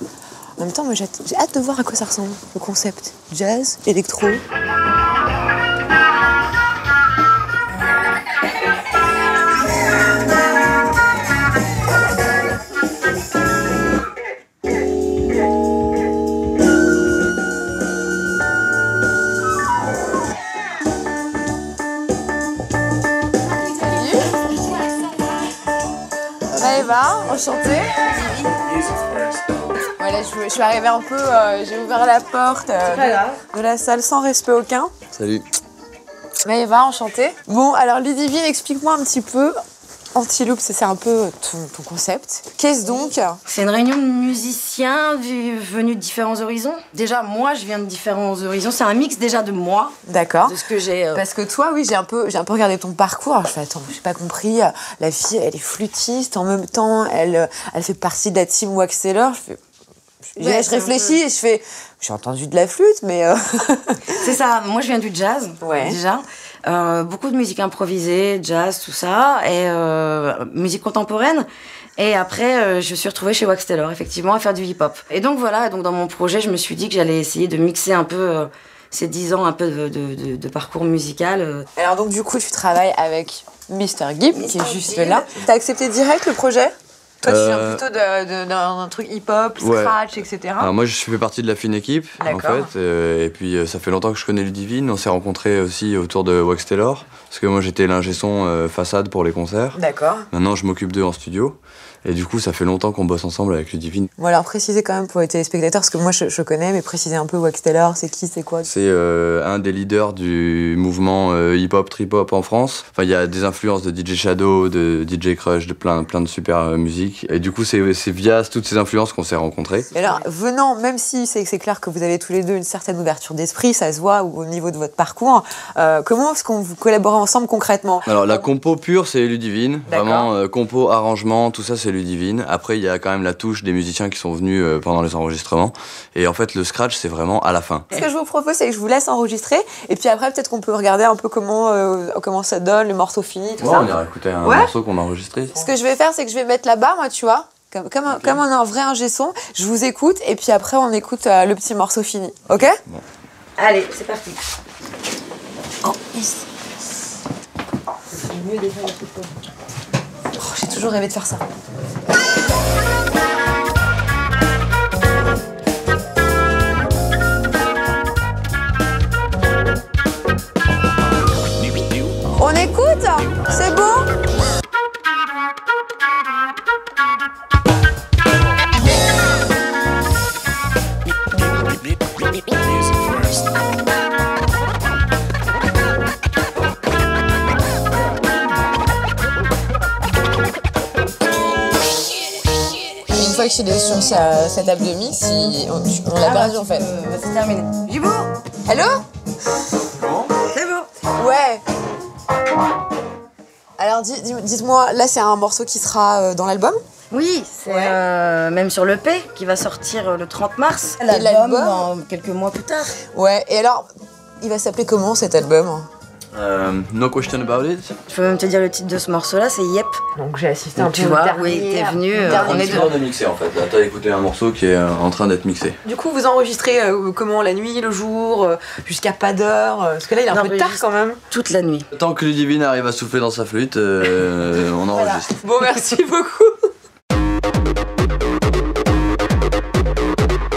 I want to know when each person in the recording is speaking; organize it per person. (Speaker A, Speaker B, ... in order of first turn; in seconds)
Speaker A: 0.6-4.4, 23.8-24.2, 26.6-27.9, 30.0-34.9, 36.4-39.6, 40.1-43.4, 50.1-50.6, 51.1-59.6, 60.3-64.2, 65.6-66.0, 81.8-90.7, 92.2-92.7, 99.7-100.3, 104.2-108.7, 119.9-128.1, 129.9-130.3, 137.9-143.9, 144.4-144.7, 145.5-152.8, 160.4-161.4, 172.4-174.1, 193.1-196.9, 198.7-199.0, 201.2-201.6, 203.8-206.8, 207.7-208.0, 211.0-211.9, 213.1-213.9, 214.4-215.9, 220.2-223.0, 225.8-231.2, 235.3-236.5
Speaker B: 32.8-33.4, 43.5-51.2, 60.4-61.2, 64.1-81.7, 84.3-85.3, 153.6-154.4, 155.8-156.4, 158.1-159.3, 196.2-198.3, 200.5-200.9, 207.1-213.0, 218.1-220.0, 220.8-222.9, 230.3-231.9
Speaker C: 35.1-35.5, 87.2-87.8, 89.6-90.0, 90.6-99.8, 100.3-104.1, 108.7-119.9, 128.1-137.9, 143.6-145.6, 148.1-148.4, 200.0-200.3, 216.3-217.9, 222.2-225.8, 231.9-235.3